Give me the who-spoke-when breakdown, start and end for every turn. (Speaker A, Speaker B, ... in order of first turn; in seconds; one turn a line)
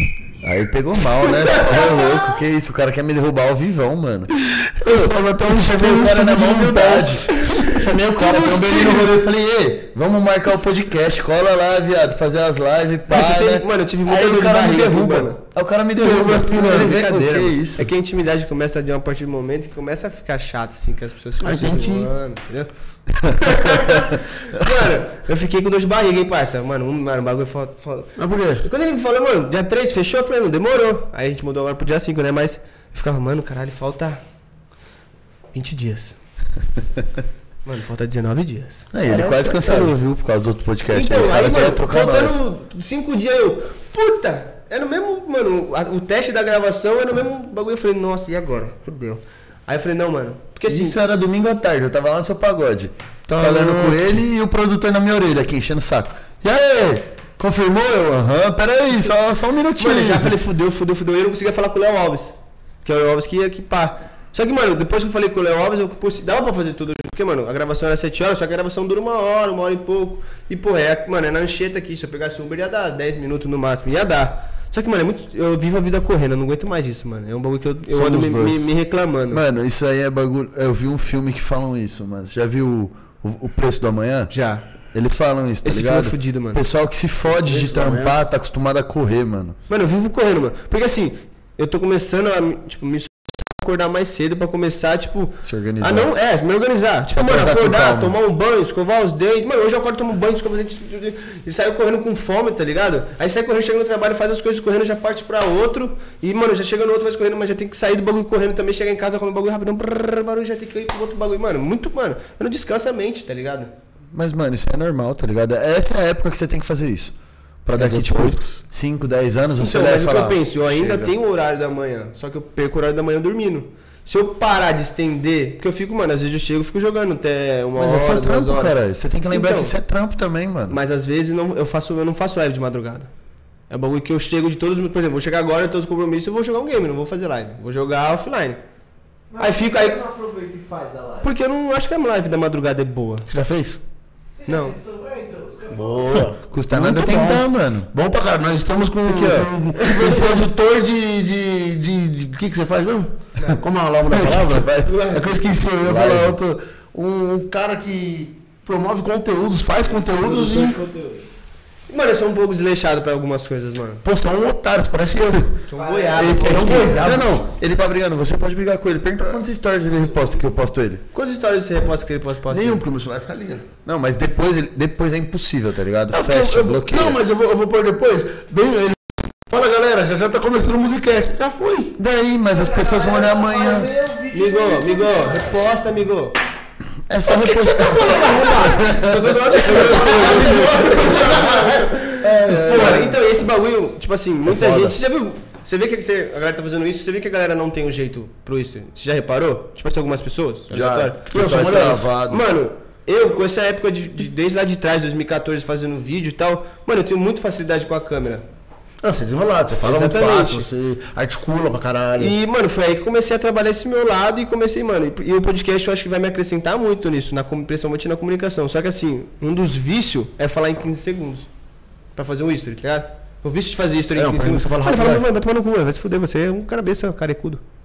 Speaker A: 0.4-7.4
Speaker B: 1.3-2.3
Speaker C: 4.8-9.3
Speaker A: 8.0-17.9
Speaker B: 13.1-15.4
Speaker C: 16.0-16.9
Speaker B: 16.6-22.7
Speaker C: 21.4-22.1
Speaker B: 23.3-34.2
Speaker A: 23.8-24.0
Speaker C: 28.2-28.7
Speaker B: 35.5-36.1
Speaker B: 37.6-39.9
Speaker A: 38.9-42.4
Speaker B: 40.9-51.0
Speaker A: 50.7-60.4
Speaker C: 53.3-54.2
Speaker B: 59.8-62.3
Speaker B: 62.8-79.4
Speaker C: 77.9-78.7
Speaker A: 79.3-84.3
Speaker B: 84.3-84.6
Speaker A: 84.9-89.6
Speaker B: 85.6-86.6
Speaker C: 87.4-88.2
Speaker B: 89.7-113.7
Speaker A: 95.4-96.1
Speaker A: 97.1-98.2
Speaker A: 114.1-121.1
Speaker C: 117.8-118.6
Speaker B: 119.6-128.8
Speaker A: 127.8-130.8
Speaker B: 129.3-129.8
Speaker B: 130.7-133.1
Speaker B: 133.7-138.6
Speaker D: 139.3-141.3
Speaker B: 139.4-140.0
Speaker B: 141.2-143.3
Speaker C: 143.3-143.8
Speaker D: 144.4-146.3
Speaker B: 144.5-144.8
Speaker C: 145.7-160.8
Speaker A: 146.3-147.9
Speaker A: 149.1-149.5
Speaker B: 149.2-150.4
Speaker A: 154.1-155.1
Speaker B: 154.8-155.3
Speaker A: 155.8-156.4
Speaker D: 159.9-161.3
Speaker B: 161.9-164.0
Speaker C: 164.0-165.5
Speaker B: 165.7-167.1
Speaker D: 165.7-166.6
Speaker C: 166.2-167.5
Speaker A: 166.2-171.0
Speaker B: 171.1-172.8
Speaker C: 172.5-173.7
Speaker A: 173.9-177.2
Speaker C: 176.1-182.0
Speaker A: 182.0-183.9
Speaker D: 182.5-185.6
Speaker B: 184.3-186.4
Speaker A: 187.1-193.2
Speaker B: 187.3-201.2
Speaker C: 189.9-191.6
Speaker C: 192.6-193.1
Speaker A: 194.5-195.0
Speaker A: 200.7-202.5
Speaker C: 201.3-202.1
Speaker B: 202.3-208.4
Speaker C: 209.0-212.3
Speaker B: 209.8-210.7
Speaker B: 212.2-221.5
Speaker B: 222.2-227.6
Speaker C: 224.2-225.2